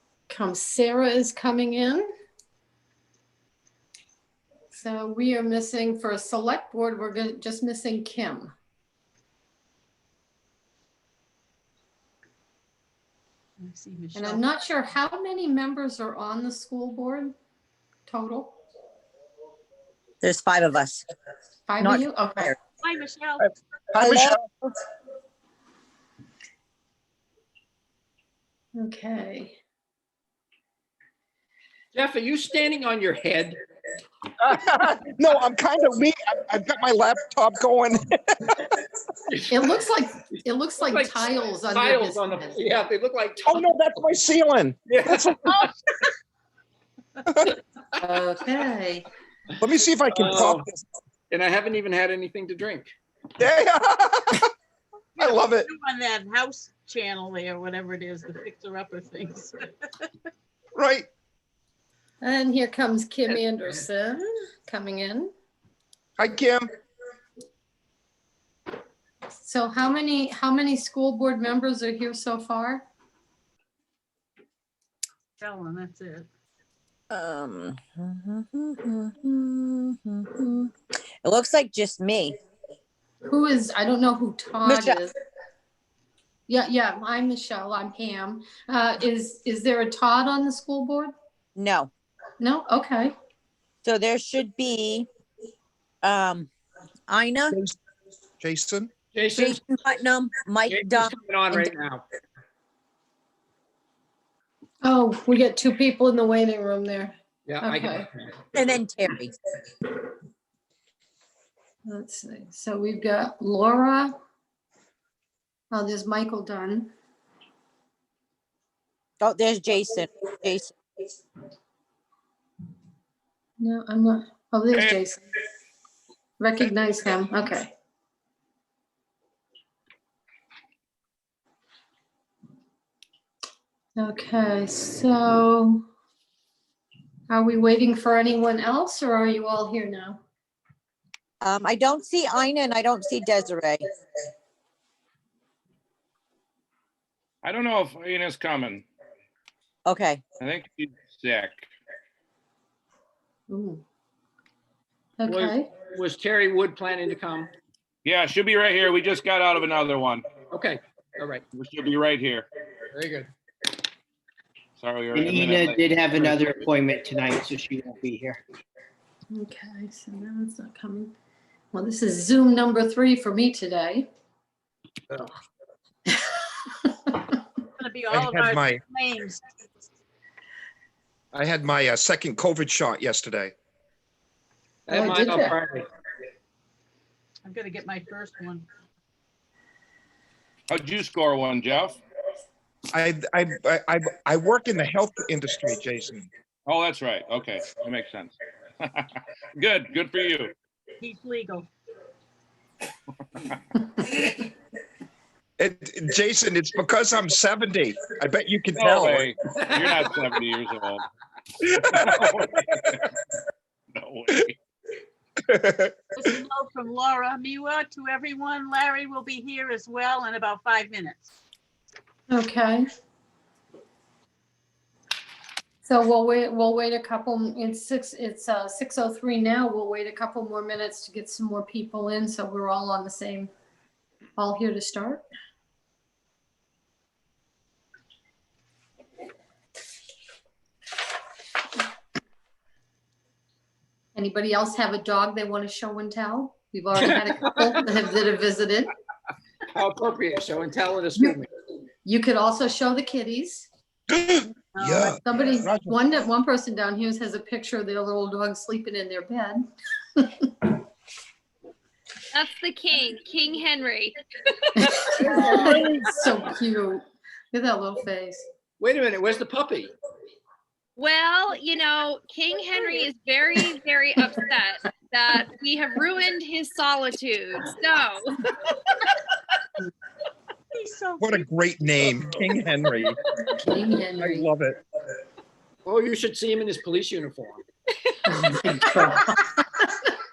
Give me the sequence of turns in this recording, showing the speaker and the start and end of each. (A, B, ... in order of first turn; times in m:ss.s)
0:00.3-0:02.0 A
0:04.7-0:08.5 A
0:13.6-0:14.4 B
0:14.1-0:17.3 A
0:18.1-0:18.6 A
0:20.2-0:21.1 C
0:21.7-0:22.5 A
0:21.8-0:22.6 C
0:22.8-0:23.5 B
0:23.9-0:24.4 D
0:24.0-0:24.7 C
0:28.8-0:29.6 A
0:31.9-0:33.6 E
0:34.4-0:38.8 D
0:39.5-0:42.6 A
0:40.8-0:43.7 E
0:43.4-0:44.8 D
0:44.9-0:45.7 E
0:48.0-0:49.0 A
0:49.6-0:50.8 D
0:50.1-0:50.7 E
0:51.3-0:52.9 E
0:53.4-0:54.5 D
0:55.2-1:00.1 B
0:55.2-0:55.7 D
1:00.7-1:01.1 D
1:02.2-1:05.3 A
1:06.2-1:06.7 D
1:09.4-1:12.9 A
1:15.4-1:16.3 B
1:17.1-1:22.4 C
1:23.2-1:25.1 A
1:24.6-1:25.0 C
1:26.5-1:31.1 A
1:31.6-1:31.9 C
1:32.4-1:33.1 A
1:33.8-1:35.1 C
1:36.0-1:36.5 C
1:37.1-1:37.6 C
1:38.4-1:38.9 D
1:39.1-1:39.6 E
1:39.3-1:41.7 C
1:40.6-1:42.0 E
1:44.8-1:48.1 A
1:47.5-1:48.1 E
1:48.5-1:49.3 C
1:51.8-1:54.1 A
1:55.7-1:56.9 A
1:59.2-2:00.7 C
2:03.6-2:05.2 A
2:04.7-2:05.0 F
2:06.4-2:07.7 A
2:14.0-2:15.8 A
2:17.3-2:20.2 A
2:21.4-2:23.9 C
2:27.4-2:28.8 F
2:29.8-2:30.2 C
2:30.4-2:31.7 F
2:33.5-2:33.8 A
2:35.2-2:35.7 A
2:35.3-2:37.5 E
2:38.0-2:40.2 F
2:40.5-2:41.4 E
2:41.5-2:42.5 F
2:42.9-2:43.3 E
2:44.8-2:46.0 F
2:45.2-2:48.4 G
2:49.3-2:51.1 A
2:51.7-2:54.1 A
2:56.8-2:57.3 A
2:57.8-2:59.4 B
2:58.1-2:58.8 D
3:01.3-3:03.5 D
3:04.9-3:05.8 E
3:04.9-3:05.6 A
3:07.4-3:08.7 B
3:10.7-3:12.0 F
3:12.9-3:16.3 D
3:16.6-3:20.5 F
3:21.0-3:21.7 B
3:25.6-3:29.3 D
3:28.8-3:31.0 F
3:29.5-3:30.3 E
3:31.6-3:32.1 D
3:31.8-3:33.1 F
3:33.9-3:34.6 F
3:35.4-3:35.9 D
3:36.1-3:41.3 B
3:42.3-3:42.8 A
3:45.8-3:53.5 A
3:54.4-3:55.2 A
4:04.1-4:08.9 A
4:07.0-4:07.8 E
4:09.7-4:11.5 E
4:12.0-4:13.7 A
4:14.1-4:16.0 D
4:14.7-4:15.2 B
4:15.2-4:20.7 A
4:22.3-4:24.1 H
4:24.8-4:28.4 A
4:25.2-4:26.0 E
4:28.8-4:29.9 E
4:31.0-4:38.4 H
4:40.7-4:41.4 B
4:41.2-4:43.2 D
4:43.5-4:44.4 A
4:44.2-4:44.8 D
4:45.8-4:47.6 E
4:48.2-4:49.6 A